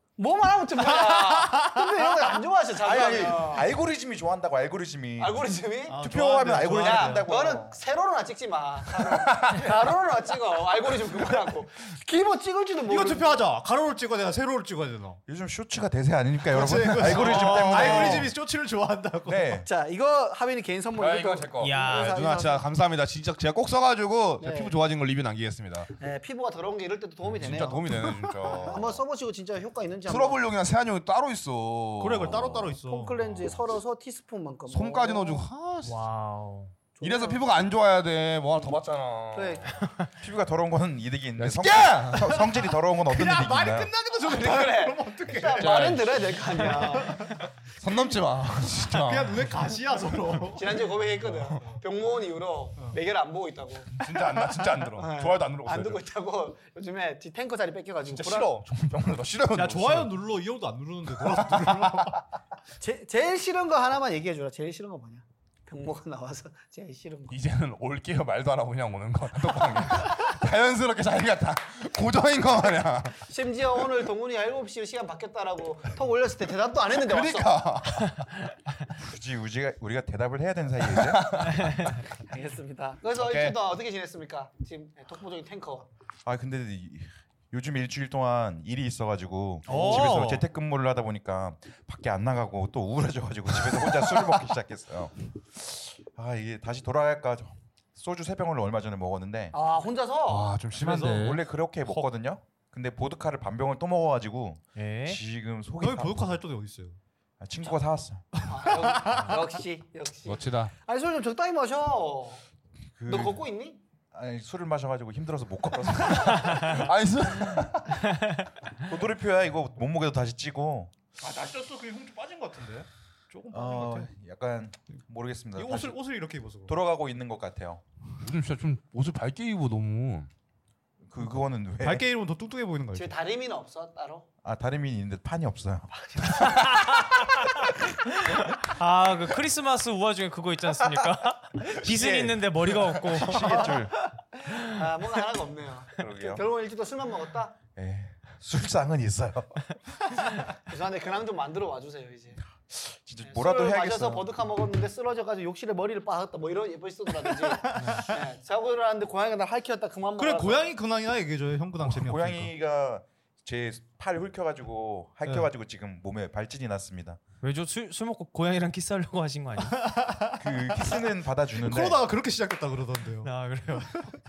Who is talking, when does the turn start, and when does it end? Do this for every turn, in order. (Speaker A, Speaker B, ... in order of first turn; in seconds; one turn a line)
Speaker A: 0.2-3.7
Speaker B: 2.8-5.5
Speaker A: 5.2-6.0
Speaker C: 5.9-7.3
Speaker B: 6.0-7.8
Speaker A: 6.6-13.4
Speaker D: 9.2-9.8
Speaker C: 12.8-15.2
Speaker B: 15.3-18.3
Speaker C: 16.5-19.6
Speaker D: 16.9-18.3
Speaker B: 19.2-19.7
Speaker A: 19.6-22.6
Speaker D: 21.0-25.9
Speaker E: 21.6-22.2
Speaker A: 24.4-24.7
Speaker A: 26.0-30.4
Speaker D: 27.3-29.0
Speaker D: 30.1-32.7
Speaker C: 32.0-33.4
Speaker A: 32.8-35.5
Speaker D: 34.7-36.0
Speaker E: 35.8-36.7
Speaker A: 37.0-37.4
Speaker D: 37.0-39.9
Speaker A: 39.3-39.8
Speaker B: 40.2-43.9
Speaker D: 41.4-42.5
Speaker C: 43.0-45.9
Speaker A: 44.2-47.3
Speaker D: 45.6-46.6
Speaker C: 46.7-47.4
Speaker D: 47.8-49.6
Speaker C: 48.9-50.8
Speaker A: 50.5-54.0
Speaker D: 54.0-56.0
Speaker A: 55.0-58.5
Speaker D: 58.1-60.1
Speaker C: 59.5-62.2
Speaker D: 61.2-62.1
Speaker A: 62.8-67.4
Speaker D: 67.3-73.3
Speaker A: 73.2-77.6
Speaker D: 76.9-78.3
Speaker B: 79.0-81.6
Speaker D: 80.9-82.0
Speaker E: 81.6-82.0
Speaker A: 82.2-85.9
Speaker D: 83.2-83.5
Speaker B: 86.3-99.5
Speaker E: 89.7-90.5
Speaker A: 99.5-100.6
Speaker D: 100.3-101.4
Speaker C: 100.8-101.3
Speaker B: 100.9-106.2
Speaker E: 104.8-105.2
Speaker C: 105.8-107.0
Speaker B: 107.4-108.5
Speaker A: 108.5-112.4
Speaker D: 110.3-110.7
Speaker B: 113.0-113.4
Speaker A: 113.1-113.8
Speaker B: 114.1-116.8
Speaker D: 116.2-118.0
Speaker B: 118.8-120.9
Speaker C: 121.2-124.1
Speaker B: 123.5-126.0
Speaker C: 125.6-126.8
Speaker B: 126.7-127.8
Speaker D: 128.1-130.3
Speaker B: 131.0-132.1
Speaker C: 131.2-133.2
Speaker A: 132.9-134.3
Speaker B: 134.4-136.6
Speaker A: 135.9-136.8
Speaker E: 138.2-143.8
Speaker B: 141.6-143.9
Speaker A: 144.4-147.6
Speaker B: 146.0-146.4
Speaker B: 147.8-149.7
Speaker A: 150.4-152.4
Speaker B: 152.7-154.3
Speaker A: 153.2-160.7
Speaker C: 157.6-158.0
Speaker E: 157.8-158.1
Speaker C: 160.2-162.5
Speaker B: 161.8-167.2
Speaker E: 167.4-169.9
Speaker C: 169.6-171.0
Speaker B: 170.4-172.0
Speaker C: 171.6-174.2
Speaker E: 173.2-174.0